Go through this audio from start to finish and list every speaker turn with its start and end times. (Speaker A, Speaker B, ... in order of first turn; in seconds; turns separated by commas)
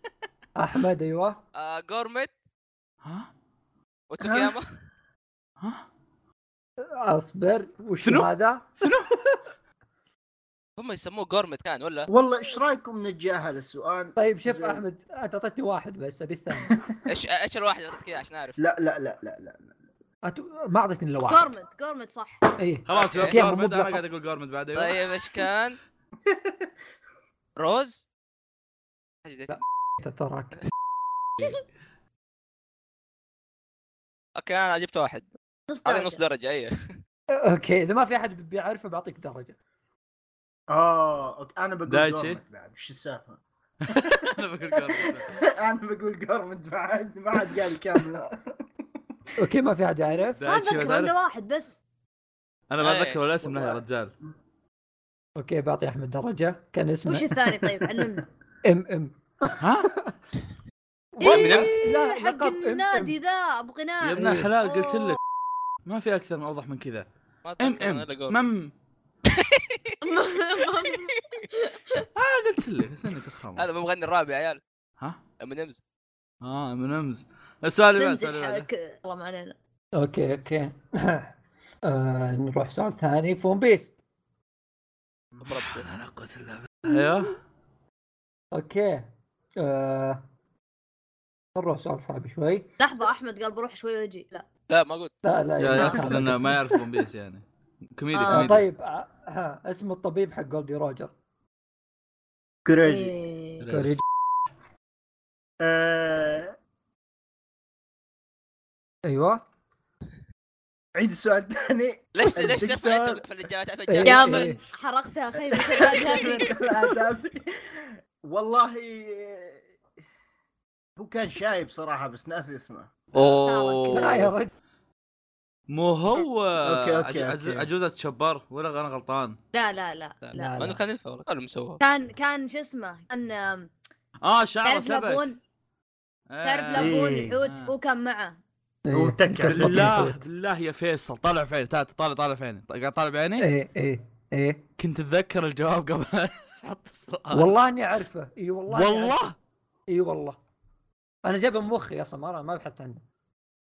Speaker A: 0.6-1.4, Speaker B: 1.5-2.3, Speaker B: 4.1-4.7, Speaker A: 6.8-8.9, Speaker C: 8.0-8.3, Speaker C: 8.8-9.1, Speaker B: 10.8-12.1, Speaker D: 12.1-14.8, Speaker A: 14.2-16.8, Speaker B: 17.1-18.6, Speaker D: 18.6-19.8, Speaker A: 20.2-21.5, Speaker E: 21.3-22.4, Speaker A: 22.6-24.0, Speaker C: 22.9-25.1, Speaker B: 22.9-23.3, Speaker B: 24.7-25.8, Speaker D: 26.3-26.7, Speaker B: 27.6-28.0, Speaker B: 29.2-29.5, Speaker A: 29.5-30.6, Speaker B: 34.4-36.7, Speaker D: 35.7-36.2, Speaker A: 37.3-39.5, Speaker D: 40.7-44.2, Speaker C: 41.9-42.4, Speaker C: 43.8-45.4, Speaker D: 44.7-48.6, Speaker A: 49.4-50.4, Speaker C: 50.4-51.1, Speaker E: 50.4-51.8, Speaker C: 52.7-54.1, Speaker B: 52.8-53.2, Speaker D: 53.4-53.8, Speaker A: 55.4-57.6, Speaker E: 57.0-58.2, Speaker A: 58.6-60.1, Speaker C: 59.6-59.9, Speaker A: 61.1-63.1, Speaker E: 61.2-65.2, Speaker B: 61.2-61.7, Speaker C: 64.0-65.2, Speaker A: 64.2-64.5, Speaker C: 65.8-67.1, Speaker B: 67.4-68.4, Speaker C: 67.6-68.7, Speaker B: 69.3-71.4, Speaker E: 70.0-72.0, Speaker C: 72.2-73.7, Speaker B: 73.6-74.6, Speaker B: 75.4-75.8, Speaker C: 76.4-78.7, Speaker E: 78.0-79.5, Speaker A: 80.0-81.3, Speaker A: 81.8-83.9, Speaker B: 85.4-85.9, Speaker C: 85.6-87.4, Speaker A: 88.5-89.1, Speaker A: 89.6-90.2, Speaker A: 91.5-92.7, Speaker E: 92.8-94.4, Speaker B: 94.7-95.1, Speaker A: 95.2-96.6, Speaker C: 95.6-97.4, Speaker E: 95.8-96.2, Speaker C: 97.9-98.6, Speaker E: 98.1-98.5, Speaker A: 98.3-101.1, Speaker D: 102.6-103.2, Speaker E: 102.8-103.7, Speaker C: 103.6-104.0, Speaker A: 103.7-104.0, Speaker D: 105.6-106.5, Speaker A: 109.0-109.4, Speaker D: 111.0-113.2, Speaker B: 112.2-114.5, Speaker A: 113.9-114.6, Speaker E: 114.0-116.9, Speaker D: 115.4-119.6, Speaker D: 121.0-122.9, Speaker C: 123.1-124.3, Speaker E: 123.2-124.1, Speaker A: 123.9-124.5, Speaker C: 125.7-129.4, Speaker D: 126.6-127.7, Speaker E: 129.5-130.5, Speaker B: 130.2-131.8, Speaker A: 130.3-130.8, Speaker E: 131.8-133.7, Speaker C: 134.2-135.3, Speaker E: 134.6-135.3, Speaker C: 136.3-137.7, Speaker E: 136.4-138.4, Speaker D: 136.7-137.3, Speaker A: 138.8-140.2, Speaker D: 138.9-140.0, Speaker C: 139.4-143.4, Speaker A: 143.4-144.6, Speaker C: 144.8-147.5, Speaker A: 147.3-149.3, Speaker C: 148.7-149.3, Speaker A: 149.9-150.4, Speaker A: 151.2-153.0